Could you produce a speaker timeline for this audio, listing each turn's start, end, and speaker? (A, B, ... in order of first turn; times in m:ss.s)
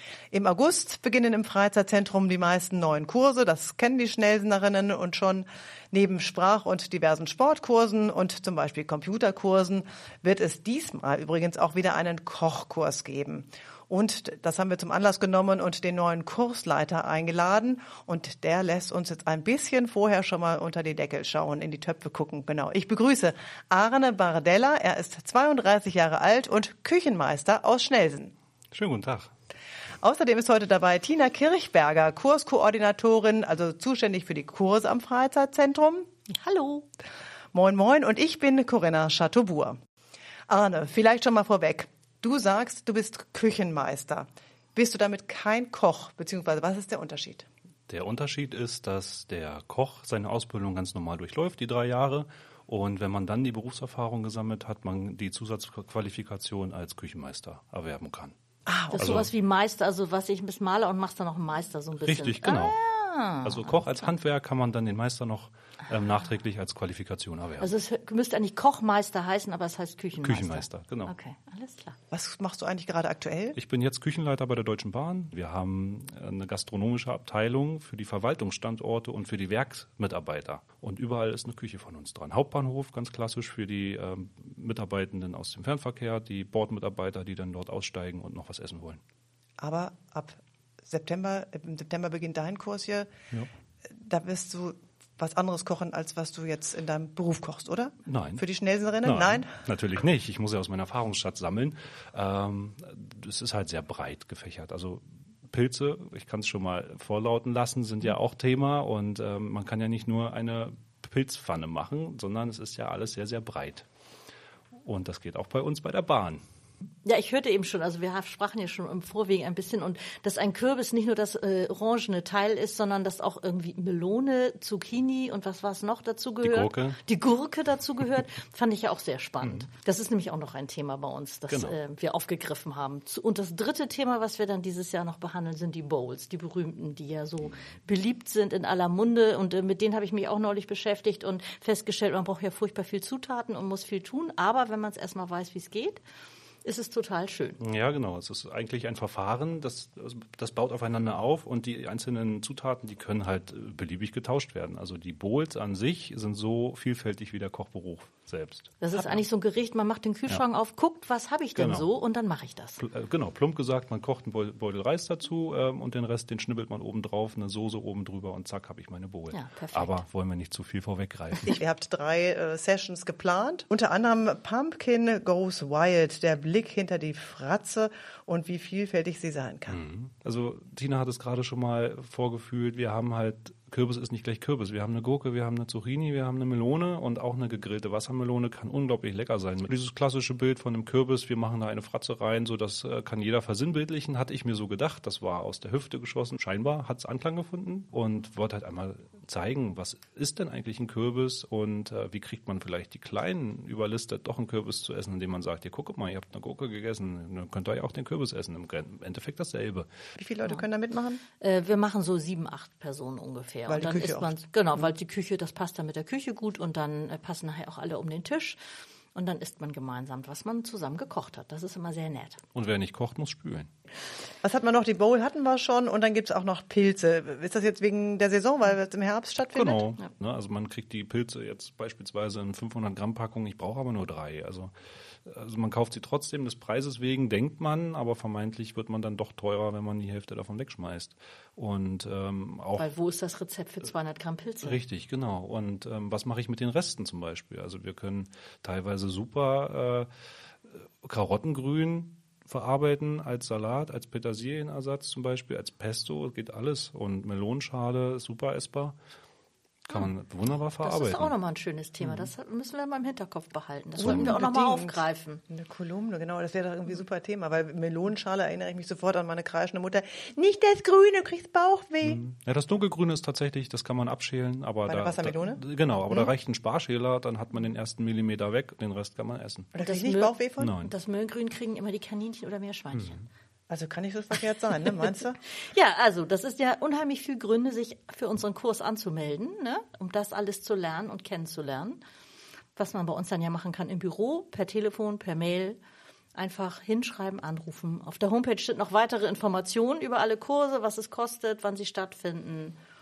0:00.3-0:28.3 A
0:28.7-0:29.3 B
0:30.0-0:36.1 A
0:36.3-0:36.9 C
0:37.5-0:39.8 A
0:40.5-0:47.5 A
0:47.9-0:58.3 B
0:58.7-0:59.1 A
0:58.9-1:04.0 C
0:59.0-0:59.3 B
1:02.0-1:02.8 B
1:03.4-1:07.7 B
1:07.6-1:12.0 C
1:10.2-1:11.1 B
1:12.1-1:13.6 A
1:13.6-1:29.0 B
1:29.6-1:33.1 A
1:33.9-1:39.5 A
1:38.1-1:38.4 B
1:39.0-1:53.9 B
1:54.8-1:56.4 B
1:57.0-2:26.0 C
2:06.4-2:07.0 B
2:11.5-2:11.8 B
2:26.6-2:27.6 C
2:27.6-2:39.2 B
2:38.8-2:42.8 C
2:41.6-2:41.9 B
2:42.8-2:51.6 B
2:49.3-2:50.0 C
2:51.5-2:59.8 A
2:59.7-3:29.9 B
3:30.2-3:31.2 A
3:31.4-3:38.6 C
3:33.7-3:34.4 A
3:39.2-3:42.4 C
3:42.5-3:43.7 B
3:44.4-3:49.9 A
3:49.5-3:54.7 B
3:55.3-4:02.9 B
4:02.8-4:04.8 C
4:04.6-4:10.1 B
4:11.0-4:19.0 B
4:19.9-4:21.3 B
4:20.8-4:25.4 C
4:24.0-4:32.2 A
4:24.0-4:24.3 B
4:32.0-4:39.7 B
4:34.9-4:36.3 A
4:39.7-4:40.8 A
4:39.8-4:43.2 C
4:40.6-4:40.9 B
4:43.7-4:45.4 A
4:45.6-4:52.0 C
4:52.8-4:55.8 C
4:56.4-5:02.8 C